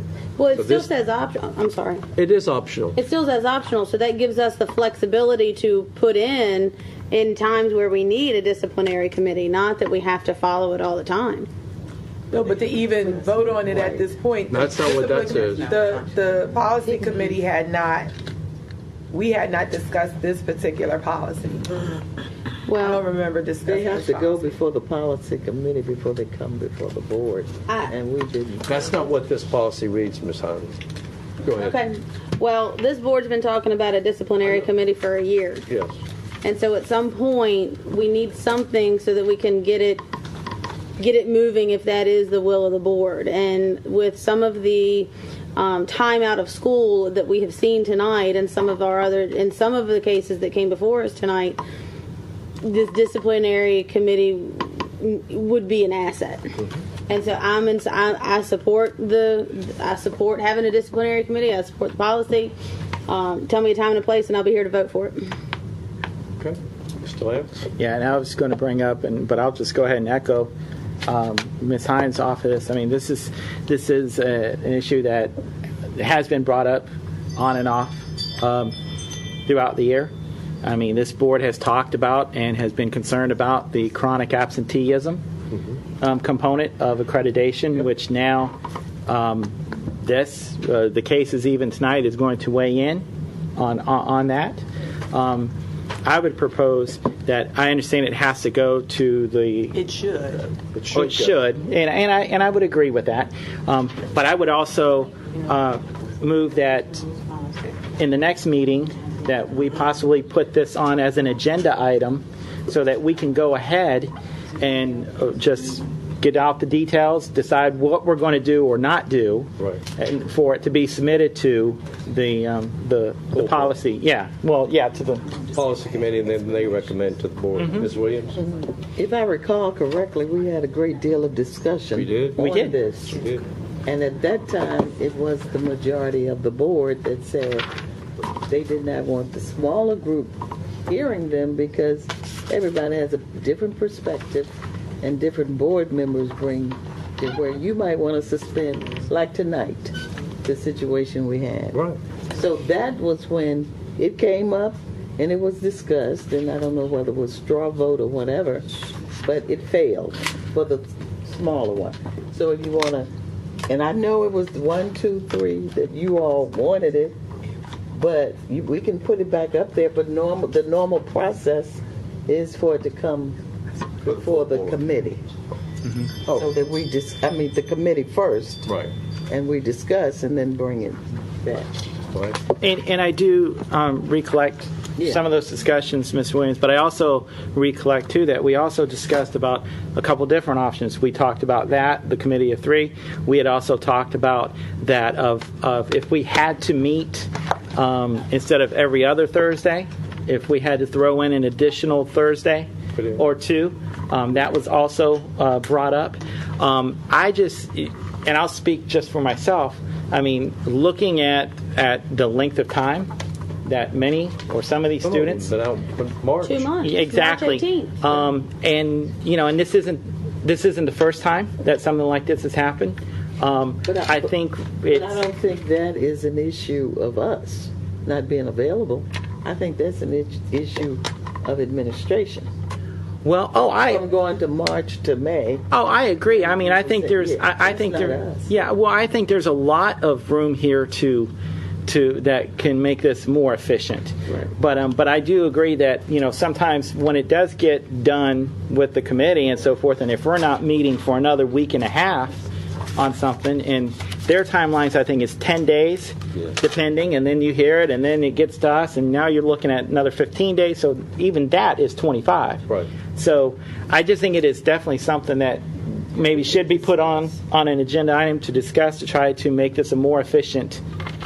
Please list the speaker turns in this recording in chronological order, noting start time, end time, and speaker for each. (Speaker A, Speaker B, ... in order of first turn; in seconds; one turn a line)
Speaker A: 0.4-2.0
Speaker B: 0.5-0.9
Speaker B: 2.1-3.0
Speaker A: 3.0-11.5
Speaker C: 12.3-18.1
Speaker B: 14.5-15.7
Speaker C: 19.1-21.9
Speaker A: 22.7-23.0
Speaker C: 22.8-24.5
Speaker D: 23.6-28.9
Speaker B: 28.6-30.8
Speaker B: 31.4-31.8
Speaker A: 31.5-35.6
Speaker B: 35.7-35.9
Speaker A: 36.4-40.0
Speaker A: 41.0-51.6
Speaker A: 52.6-56.5
Speaker A: 57.1-62.5
Speaker A: 63.1-65.2
Speaker B: 66.4-67.7
Speaker E: 67.8-70.5
Speaker E: 71.0-75.3
Speaker E: 76.0-78.7
Speaker E: 79.5-80.1
Speaker E: 80.6-85.2
Speaker E: 86.0-88.5
Speaker E: 89.1-93.0
Speaker E: 93.6-95.5
Speaker E: 96.0-99.8
Speaker C: 99.7-100.5
Speaker B: 100.7-101.3
Speaker E: 100.9-107.0
Speaker E: 108.0-125.5
Speaker B: 123.3-123.7
Speaker B: 125.5-128.4
Speaker E: 127.5-127.9
Speaker D: 128.4-133.2
Speaker B: 131.9-132.4
Speaker E: 132.3-132.8
Speaker B: 133.1-133.4
Speaker D: 133.8-137.7
Speaker D: 138.5-140.3
Speaker D: 140.9-158.7
Speaker B: 151.7-152.0
Speaker D: 159.2-163.1
Speaker D: 163.7-167.2
Speaker D: 167.9-173.4
Speaker D: 174.0-175.2
Speaker B: 174.0-174.8
Speaker E: 175.8-176.1
Speaker D: 176.3-178.7
Speaker D: 179.3-181.7
Speaker B: 182.1-182.4
Speaker E: 182.6-213.1
Speaker D: 185.0-185.2
Speaker E: 213.7-215.5
Speaker B: 215.0-216.7
Speaker A: 216.4-218.0
Speaker E: 216.8-225.2
Speaker D: 223.8-224.3
Speaker D: 224.9-232.5
Speaker E: 233.2-234.0
Speaker D: 233.7-235.7
Speaker E: 235.7-241.3
Speaker D: 236.3-238.5
Speaker E: 241.8-270.8
Speaker D: 244.3-244.5